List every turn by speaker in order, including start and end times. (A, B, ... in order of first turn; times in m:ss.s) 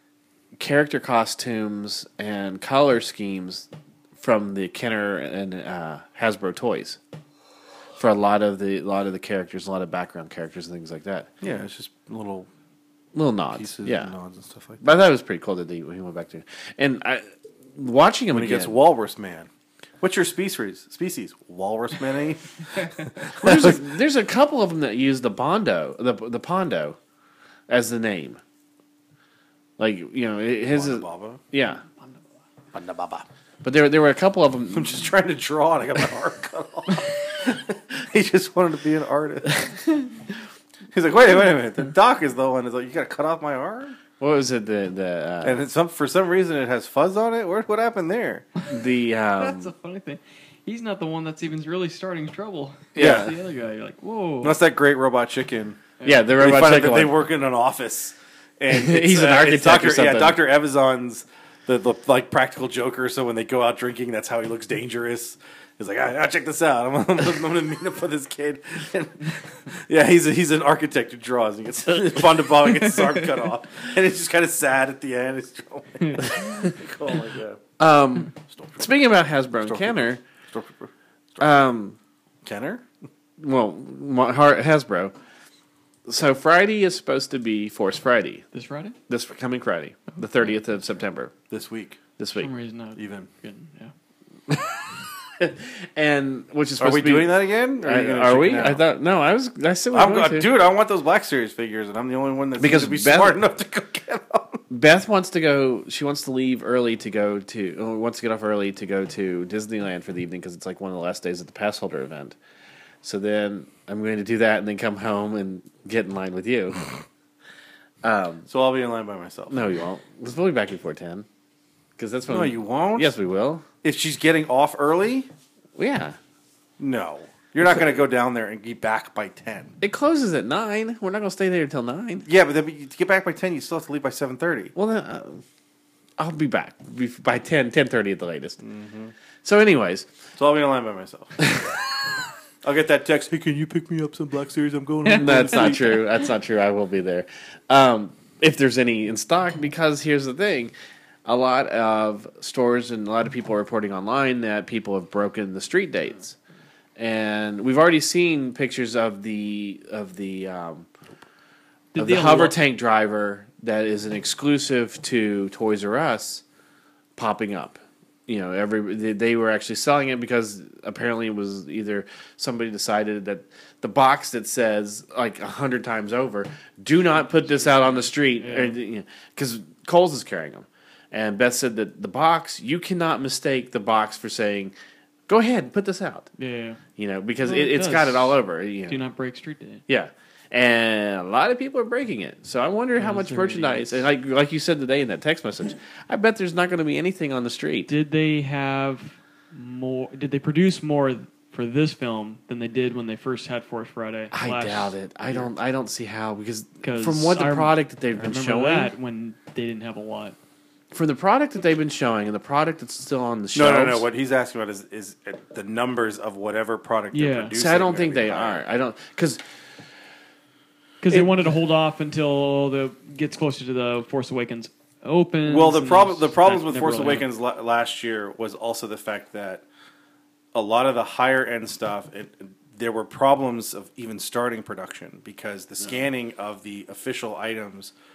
0:00.6-0:07.0 A
0:08.0-0:11.3 A
0:11.4-0:12.5 B
0:13.1-0:14.1 A
0:13.5-0:14.8 B
0:14.8-0:18.8 A
0:18.3-0:19.5 B
0:20.0-0:23.8 B
0:23.4-0:27.0 A
0:27.7-0:28.4 A
0:29.8-0:31.8 A
0:30.7-0:31.4 B
0:32.7-0:33.2 B
0:33.6-0:35.0 A
0:34.7-0:39.9 B
0:40.9-0:44.0 B
0:44.2-0:45.6 A
0:45.4-0:48.5 B
0:48.7-0:49.7 A
0:49.4-0:54.6 C
0:52.9-0:53.3 A
0:53.0-0:53.3 B
0:54.4-1:17.6 B
0:56.0-0:56.2 C
0:56.0-0:57.1 A
0:58.7-1:00.4 A
1:17.8-1:20.2 A
1:18.5-1:18.9 B
1:19.6-1:21.5 B
1:21.4-1:22.0 A
1:22.4-1:22.8 B
1:23.4-1:25.1 A
1:26.1-1:28.4 A
1:28.5-1:29.0 C
1:29.1-1:31.3 A
1:31.5-1:32.0 B
1:32.2-1:32.5 A
1:32.4-1:33.9 C
1:33.0-1:33.3 B
1:34.5-1:34.8 A
1:35.4-1:40.5 A
1:36.8-1:38.8 B
1:39.9-1:44.6 B
1:42.6-1:43.4 A
1:44.7-1:52.4 A
1:53.0-1:56.9 A
1:58.0-1:58.5 A
1:58.5-1:59.7 B
1:59.5-2:01.2 A
2:02.0-2:03.6 A
2:02.3-2:03.1 B
2:03.8-2:05.3 B
2:05.8-2:06.2 A
2:06.8-2:09.8 B
2:09.8-2:12.2 A
2:12.2-2:14.7 B
2:14.8-2:15.4 A
2:16.2-2:18.6 A
2:18.6-2:19.1 B
2:19.4-2:20.1 A
2:20.4-2:21.8 B
2:21.4-2:21.7 A
2:22.6-2:26.0 B
2:25.1-2:26.0 C
2:25.1-2:30.7 A
2:31.2-2:36.4 A
2:37.0-2:40.9 A
2:41.9-2:42.6 C
2:42.0-2:46.4 A
2:47.2-3:04.7 A
2:57.2-2:58.8 C
3:05.3-3:06.3 A
3:06.4-3:06.8 C
3:07.0-3:09.0 A
3:07.4-3:09.8 C
3:09.9-3:17.9 A
3:13.0-3:14.0 C
3:17.9-3:24.9 C
3:24.3-3:28.9 A
3:26.8-3:30.4 C
3:30.9-3:34.0 A
3:33.5-3:38.6 B
3:37.1-3:37.5 C
3:37.6-3:39.4 A
3:41.0-3:47.3 C
3:45.4-3:49.6 B
3:50.5-3:57.9 B